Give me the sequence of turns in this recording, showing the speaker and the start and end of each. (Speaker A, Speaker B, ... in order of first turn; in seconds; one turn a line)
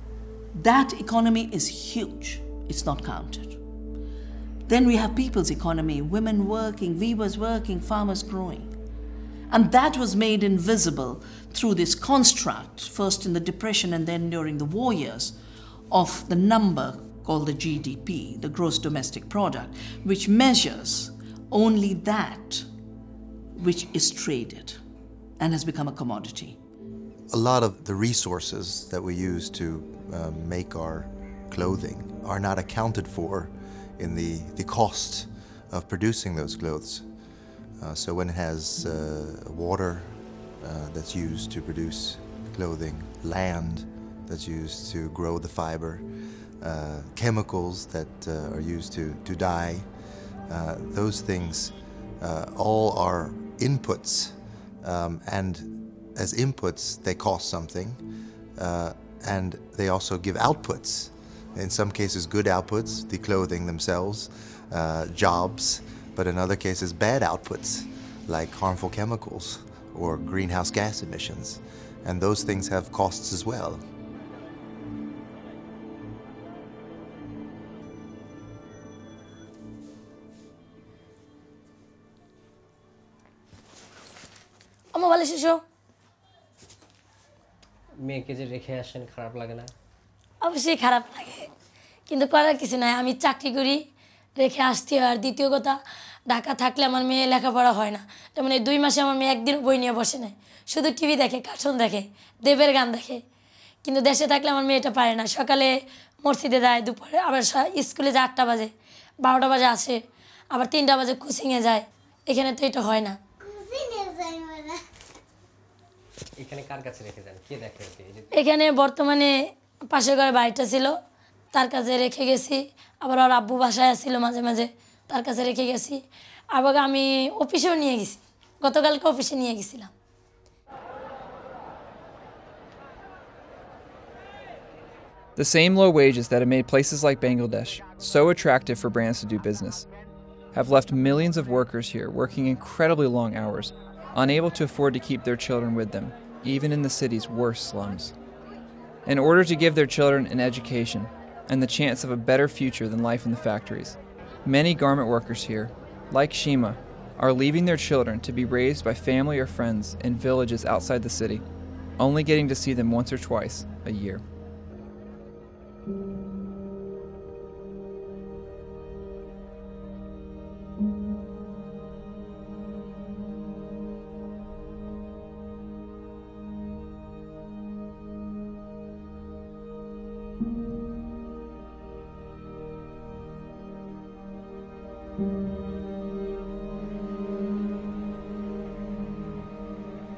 Speaker A: 0.6-3.6
Speaker A: 4.7-8.7
Speaker A: 9.5-15.3
Speaker A: 15.9-22.7
Speaker A: 23.6-24.8
Speaker A: 25.4-26.6
Speaker B: 27.3-37.0
Speaker B: 37.8-46.0
Speaker B: 46.6-49.9
Speaker B: 50.5-58.0
Speaker B: 58.6-73.8
Speaker C: 84.9-85.6
Speaker D: 88.0-89.7
Speaker C: 90.4-91.5
Speaker C: 92.1-93.8
Speaker C: 94.4-95.8
Speaker C: 96.3-103.2
Speaker C: 103.8-108.7
Speaker C: 109.2-110.0
Speaker C: 110.5-113.2
Speaker D: 116.4-118.3
Speaker C: 118.3-121.0
Speaker C: 121.5-126.0
Speaker C: 126.5-129.9
Speaker E: 135.3-139.9
Speaker E: 140.5-148.1
Speaker E: 149.1-161.4
Speaker E: 162.0-164.2